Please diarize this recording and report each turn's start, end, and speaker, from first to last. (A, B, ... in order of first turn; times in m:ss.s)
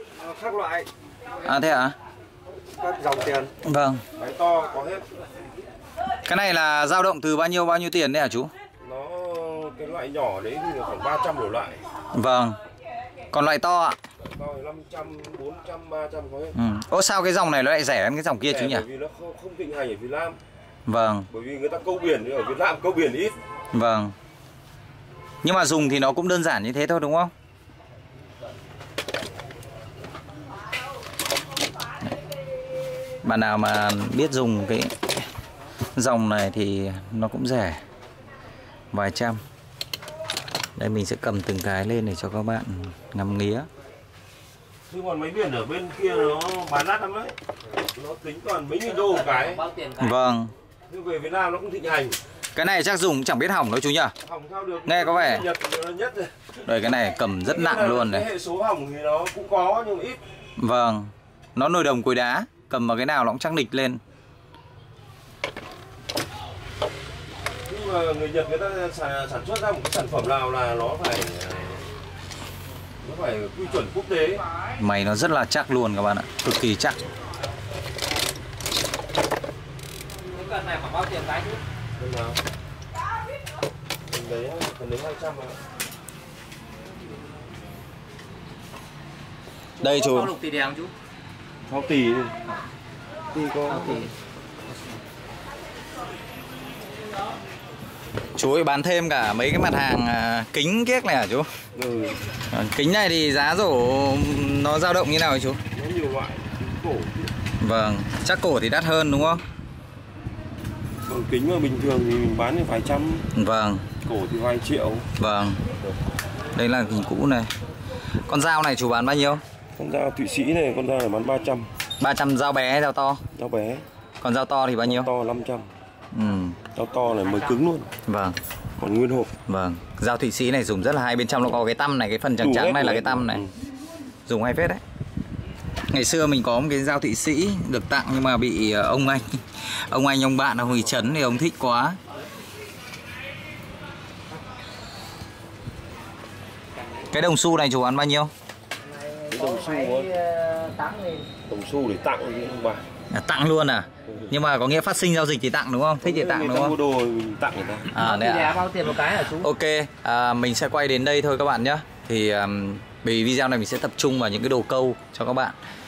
0:00.2-0:00.9 A
0:01.4-0:02.0 B
0:02.8-0:03.5 A
0:03.6-0:04.0 B
0:04.2-0:05.1 C
0:06.2-0:08.5 B
0:08.8-0:11.8 C
0:12.1-0:12.6 B
0:13.3-0:14.0 B
0:14.2-0:16.6 C
0:16.6-0:18.8 B
0:18.4-0:20.4 C
0:20.9-0:21.3 B
0:21.3-0:23.4 C
0:23.7-0:24.1 B
0:25.4-0:27.3 B
0:33.2-0:35.0 B
0:36.0-0:37.8 B
0:38.9-0:39.4 B
0:40.8-0:43.7 B
0:44.9-0:49.7 C
0:49.3-0:50.0 A
0:50.0-0:50.5 B
0:50.9-0:52.2 C
0:52.6-0:54.1 B
0:54.2-0:56.5 C
0:54.9-0:55.5 B
0:56.7-0:58.3 B
0:57.4-1:00.2 C
1:00.6-1:04.0 B
1:07.7-1:11.9 C
1:13.0-1:14.4 C
1:14.8-1:17.0 B
1:20.3-1:21.6 A
1:22.0-1:22.4 C
1:24.1-1:25.6 C
1:29.8-1:30.3 B
1:29.8-1:30.9 A
1:31.7-1:32.4 C
1:33.3-1:34.1 C
1:38.4-1:41.5 B
1:41.8-1:42.2 C
1:42.5-1:45.6 B
1:45.7-1:47.3 C
1:47.6-1:49.4 B
1:51.0-1:53.3 C
1:53.3-1:53.9 B
1:54.0-1:55.1 C
1:55.2-1:55.6 B
1:56.6-1:57.5 B
1:58.2-1:59.4 B
1:59.8-2:01.7 C
2:02.0-2:03.2 B
2:03.3-2:03.8 C
2:04.2-2:05.1 B
2:04.8-2:05.7 C
2:06.1-2:06.6 B
2:06.7-2:07.9 C
2:08.1-2:08.4 B
2:08.8-2:09.3 C
2:09.5-2:13.4 B
2:12.4-2:13.5 C
2:14.3-2:14.8 B
2:15.9-2:22.0 B
2:27.1-2:28.3 B
2:28.9-2:31.3 A
2:29.3-2:30.2 C
2:31.5-2:32.8 C
2:33.1-2:36.8 B
2:34.1-2:34.3 C
2:36.0-2:38.0 C
2:37.9-2:45.6 B
2:38.0-2:39.4 A